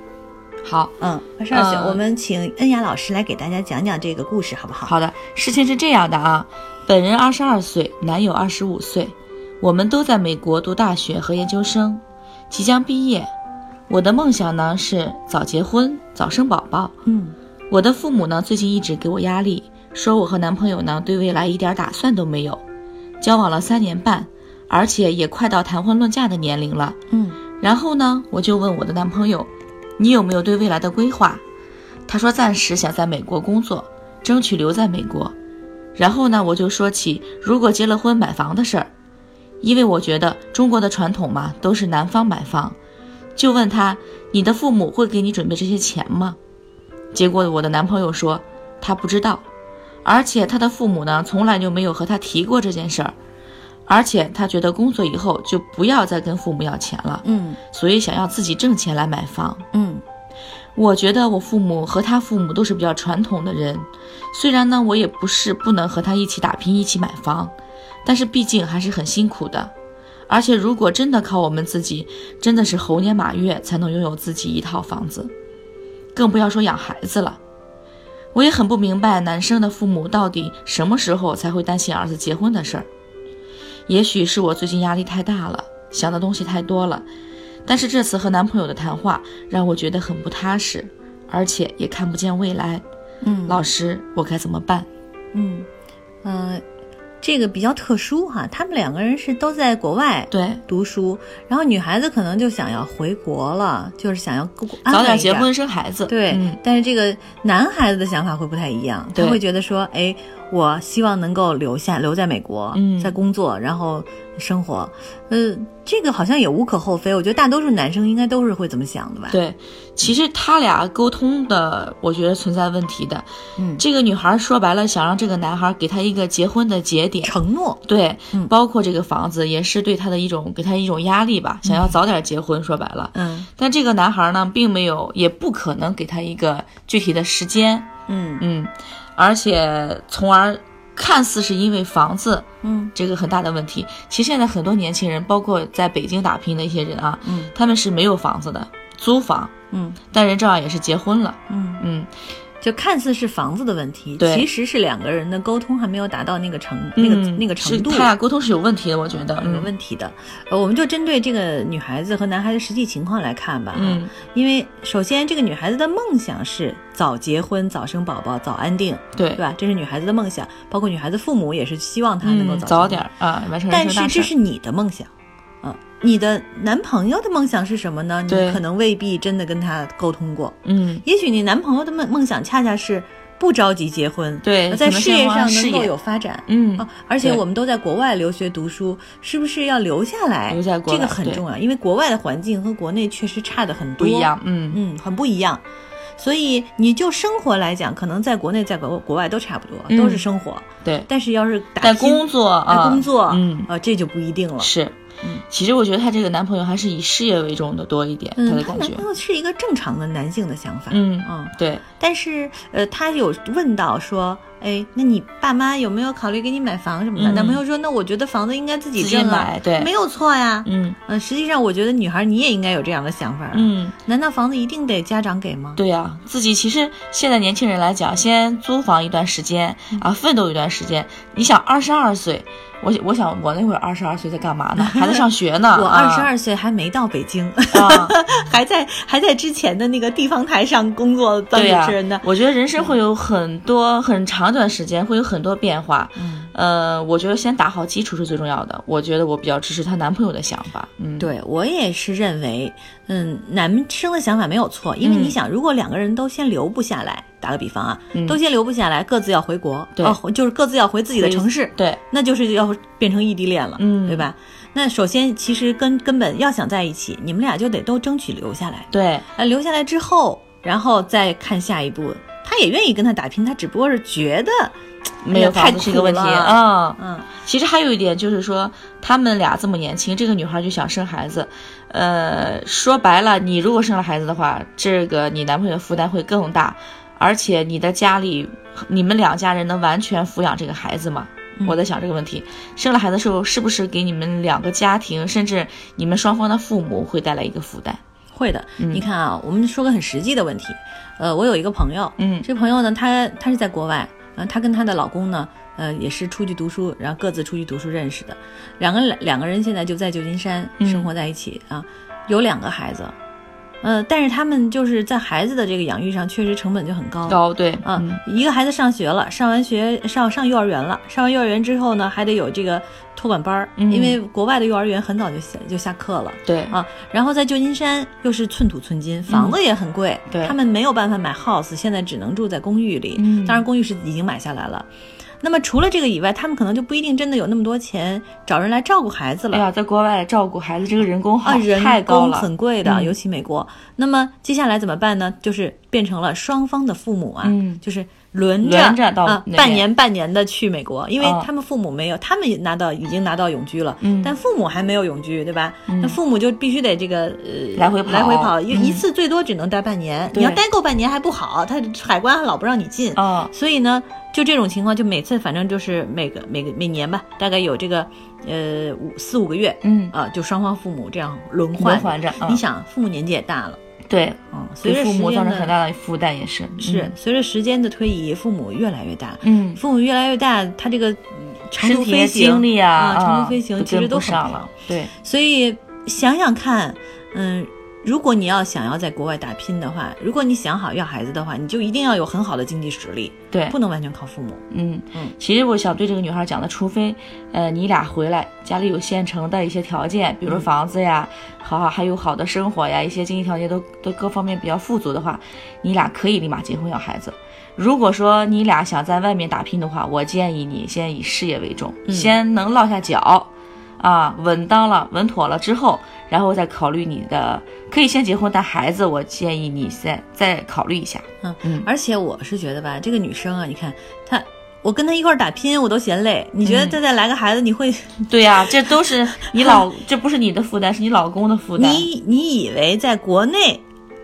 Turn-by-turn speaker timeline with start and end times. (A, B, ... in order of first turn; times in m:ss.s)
0:00.6-0:01.0 A
0:01.0-0:04.9 B
0:01.5-0:02.0 A
0:04.8-0:13.3 A
0:13.9-0:16.9 A
0:17.0-0:17.4 B
0:17.7-0:22.6 A
0:23.2-0:27.0 A
0:27.1-0:27.4 B
0:27.6-0:31.4 A
0:32.1-0:35.3 A
0:36.0-0:38.9 A
0:39.6-0:42.8 A
0:43.4-0:46.4 A
0:47.1-0:49.4 A
0:50.0-0:53.1 A
0:53.9-0:59.6 A
0:57.2-0:57.6 B
0:59.7-1:00.0 B
1:00.8-1:07.5 A
1:08.0-1:09.7 A
1:10.3-1:15.3 A
1:16.1-1:17.4 A
1:18.3-1:22.9 A
1:23.9-1:27.0 A
1:27.6-1:32.8 A
1:33.2-1:33.6 B
1:33.5-1:34.9 A
1:35.3-1:35.7 B
1:36.2-1:36.6 B
1:37.2-1:45.5 B
1:40.3-1:40.6 A
1:44.9-1:46.6 A
1:46.1-1:59.4 B
1:49.1-1:49.4 A
1:52.7-1:53.2 A
1:59.3-2:03.3 A
2:03.6-2:03.8 B
2:03.8-2:17.9 A
2:07.2-2:08.5 B
2:11.6-2:11.9 B
2:13.1-2:13.5 B
2:18.1-2:18.4 B
2:18.4-2:29.5 A
2:22.6-2:22.9 B
2:27.2-2:27.5 B
2:29.7-2:30.0 B
2:30.1-2:32.1 A
2:31.5-2:31.8 B
2:32.6-2:38.1 B
2:34.2-2:34.4 A
2:37.0-2:39.7 A
2:39.1-2:53.0 B
2:43.7-2:44.1 A
2:49.1-2:49.4 A
2:52.2-2:54.3 A
2:53.7-2:55.1 B
2:55.6-3:15.6 B
2:58.3-2:58.6 A
3:00.6-3:01.0 A
3:04.4-3:05.9 A
3:06.5-3:07.4 A
3:10.5-3:11.4 A
3:14.0-3:14.8 A
3:16.2-3:24.7 B
3:19.9-3:20.2 A
3:21.8-3:23.7 A
3:24.6-3:29.0 A
3:28.4-3:45.8 B
3:30.9-3:31.8 A
3:37.2-3:37.6 A
3:39.0-3:39.9 A
3:40.6-3:41.0 A
3:43.5-3:43.9 A
3:45.8-3:56.3 A
3:54.8-4:02.2 B
3:57.7-3:58.2 A
4:01.5-4:11.3 A
4:06.2-4:06.5 B
4:11.2-4:34.7 B
4:15.0-4:15.4 A
4:18.1-4:18.4 A
4:21.2-4:22.0 A
4:23.8-4:24.3 A
4:28.9-4:29.2 A
4:35.2-4:58.0 A
4:35.3-4:37.3 B
4:58.3-5:13.1 B
4:58.8-4:59.0 A
5:02.2-5:02.5 A
5:10.8-5:11.1 A
5:13.8-5:34.9 B
5:17.3-5:18.2 A
5:23.8-5:24.2 A
5:26.4-5:26.7 A
5:29.3-5:29.6 A
5:33.2-5:33.6 A
5:35.4-5:39.6 B
5:39.5-5:43.1 A
5:41.4-6:13.8 B
5:47.4-5:47.8 A
5:48.6-5:49.8 A
5:51.2-5:51.5 A
5:54.0-5:54.3 A
5:55.9-5:56.2 A
5:57.8-5:59.0 A
6:00.3-6:00.6 A
6:03.1-6:03.5 A
6:09.8-6:10.1 A
6:11.8-6:12.6 A
6:14.1-6:17.1 A
6:14.5-6:15.7 B
6:16.8-6:35.3 B
6:19.4-6:19.8 A
6:21.8-6:25.1 A
6:34.7-7:01.9 A
6:52.1-6:52.3 B
7:01.4-7:09.8 B
7:06.6-7:07.0 A
7:08.2-7:12.1 A
7:11.8-7:13.8 B